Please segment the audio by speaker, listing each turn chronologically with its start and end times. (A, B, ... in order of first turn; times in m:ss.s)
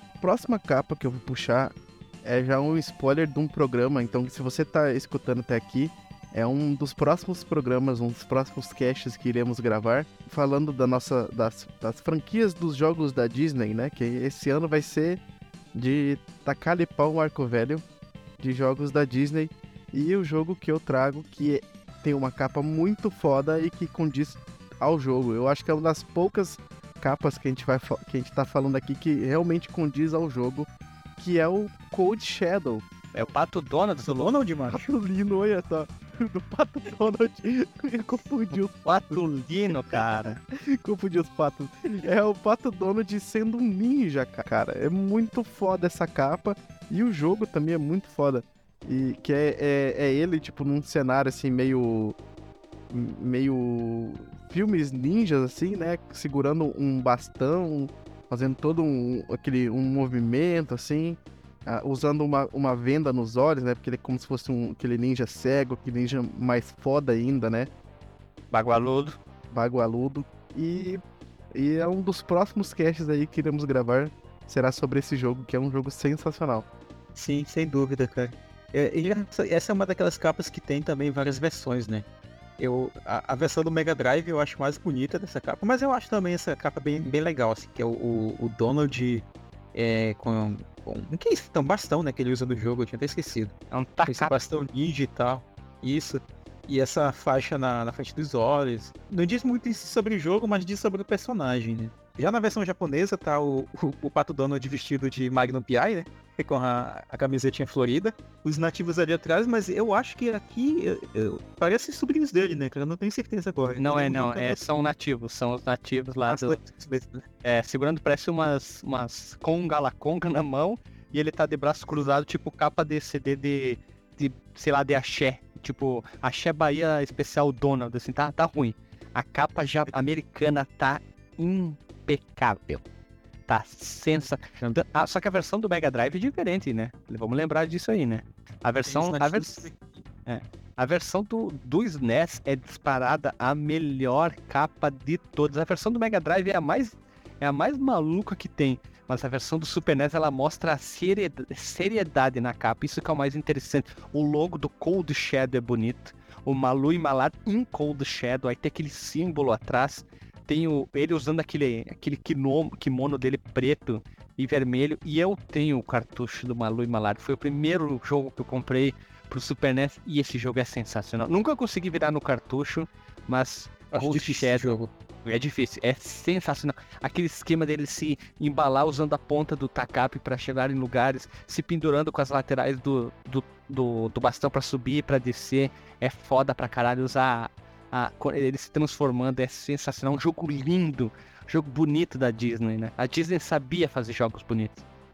0:00.2-0:15.2 A
0:15.7-0:17.8 A
0:18.4-0:32.9 A
0:33.1-0:34.3 B
0:34.0-0:34.8 C
0:34.7-0:38.7 A
0:38.8-0:40.4 B
0:40.5-0:52.2 A
0:52.9-1:07.7 A
1:08.5-1:09.2 B
1:09.5-1:16.6 A
1:17.1-1:22.0 C
1:22.6-1:33.5 C
1:33.7-1:34.3 B
1:34.0-1:54.6 C
1:53.8-1:56.6 B
1:56.3-1:57.2 C
1:57.4-2:12.8 B
2:13.5-2:19.7 B
2:18.9-2:20.0 C
2:20.2-2:54.7 B
2:53.9-2:54.9 C
2:55.2-3:14.8 B